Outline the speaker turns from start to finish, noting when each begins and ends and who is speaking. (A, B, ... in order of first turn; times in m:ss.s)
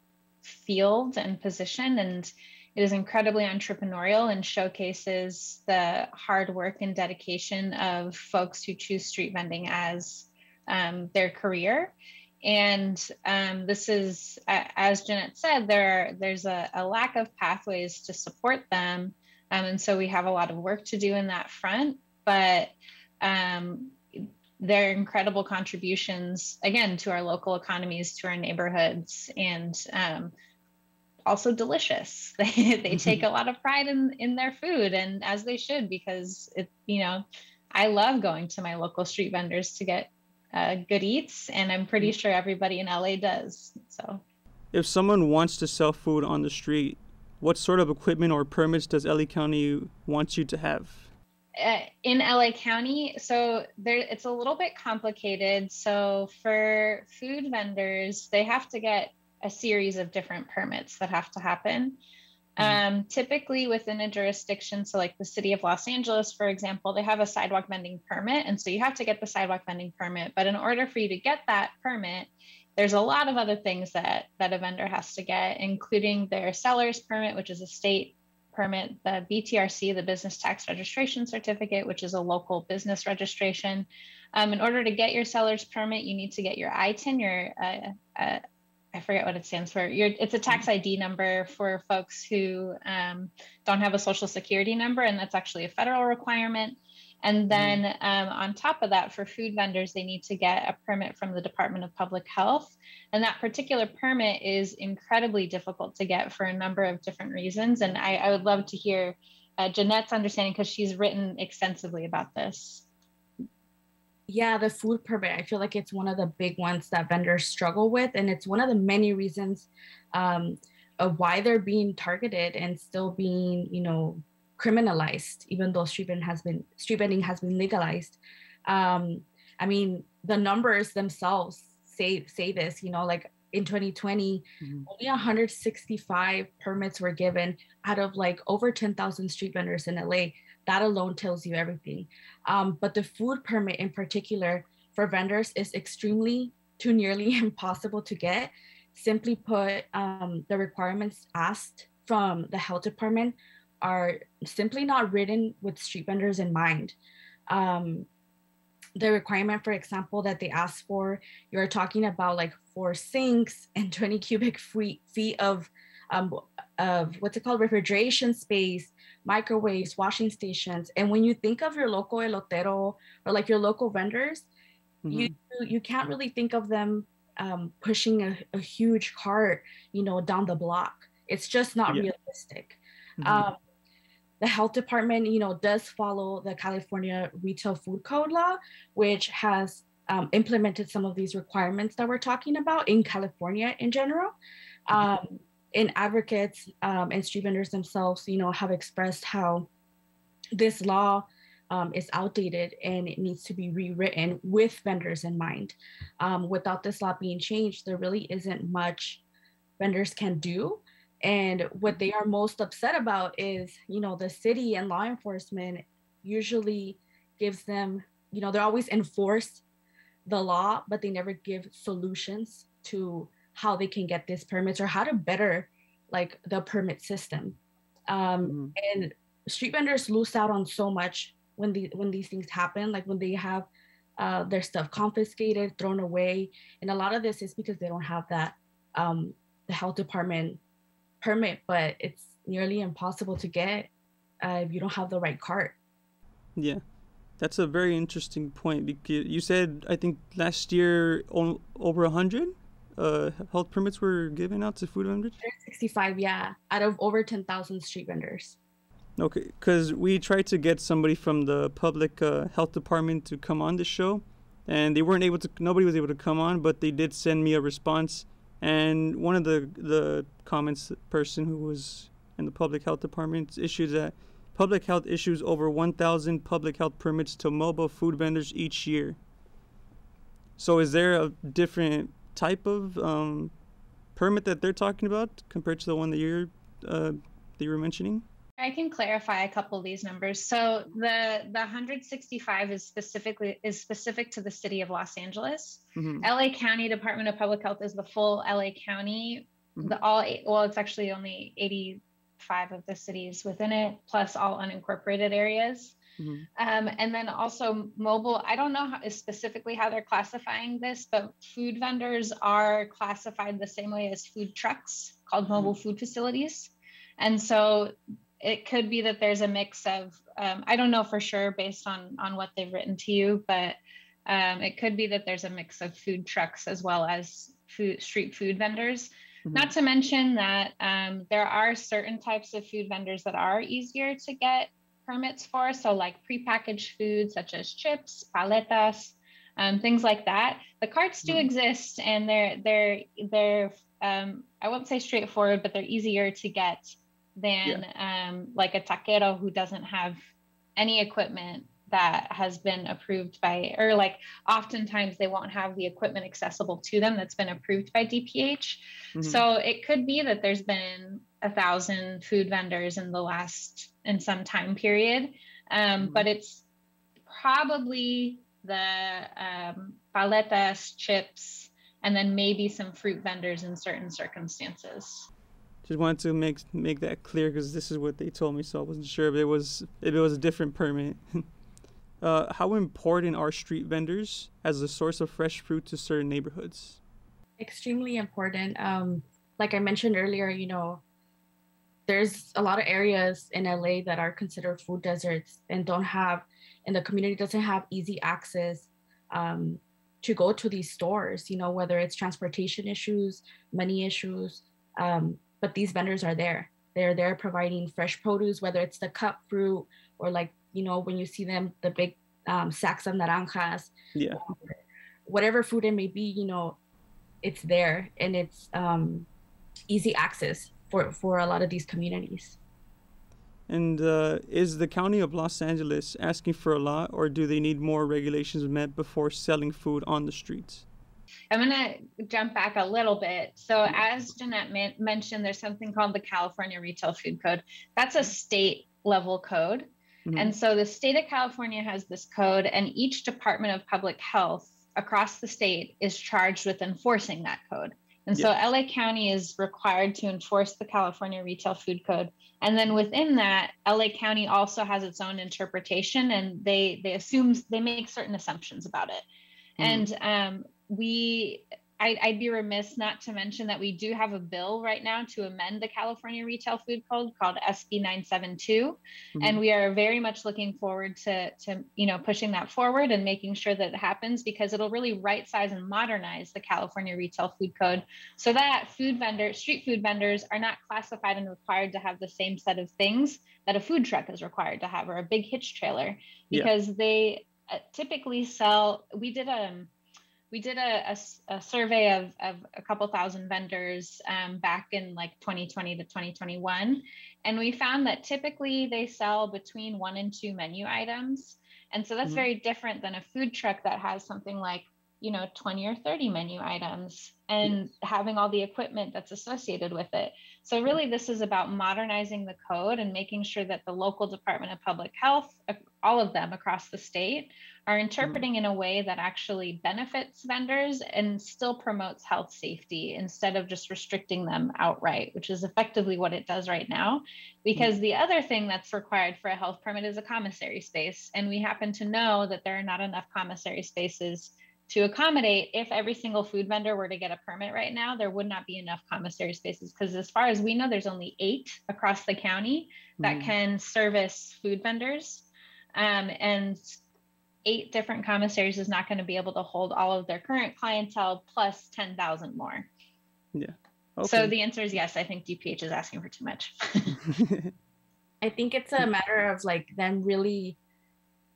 0:00.4-0:30.3 A
0:31.2-0:44.2 A
0:32.9-0:33.2 B
0:44.7-0:51.1 B
0:51.6-1:02.0 A
1:02.6-1:28.4 A
1:28.9-1:52.8 A
1:37.5-1:37.8 B
1:54.3-2:37.0 C
2:14.6-2:14.9 B
2:37.5-2:38.1 C
2:39.0-2:54.5 C
2:55.0-2:55.3 B
2:55.1-3:03.6 C
3:03.2-3:03.5 B
3:04.4-3:14.4 C
3:14.9-3:19.7 C
3:20.5-3:29.2 C
3:29.8-3:39.6 C
3:40.2-4:00.6 C
3:48.5-3:48.7 B
4:01.2-4:03.9 C
4:04.4-4:05.8 C
4:06.6-4:06.8 B
4:07.4-4:15.4 B
4:15.4-4:18.6 C
4:19.2-4:39.2 B
4:40.6-4:43.5 B
4:44.1-4:48.2 B
4:48.6-5:06.0 A
4:56.0-4:56.3 B
5:06.2-5:06.5 B
5:06.6-5:50.2 A
5:29.5-5:29.7 B
5:50.8-6:06.6 A
5:59.2-5:59.4 B
6:06.0-6:06.3 B
6:07.3-6:15.3 A
6:15.8-6:21.4 B
6:22.2-6:27.0 B
6:27.6-6:31.0 C
6:32.1-6:56.8 C
6:54.1-6:54.4 B
6:57.4-6:59.3 C
6:59.9-7:02.6 C
7:03.7-7:10.8 B
7:11.5-7:39.2 A
7:20.3-7:20.5 B
7:39.8-8:09.9 A
7:39.8-7:40.1 B
8:10.5-9:07.0 A
9:03.2-9:03.5 B
9:07.6-9:12.9 A
9:13.5-9:14.5 B
9:14.2-9:17.2 A
9:17.3-9:17.7 B
9:18.4-9:20.8 C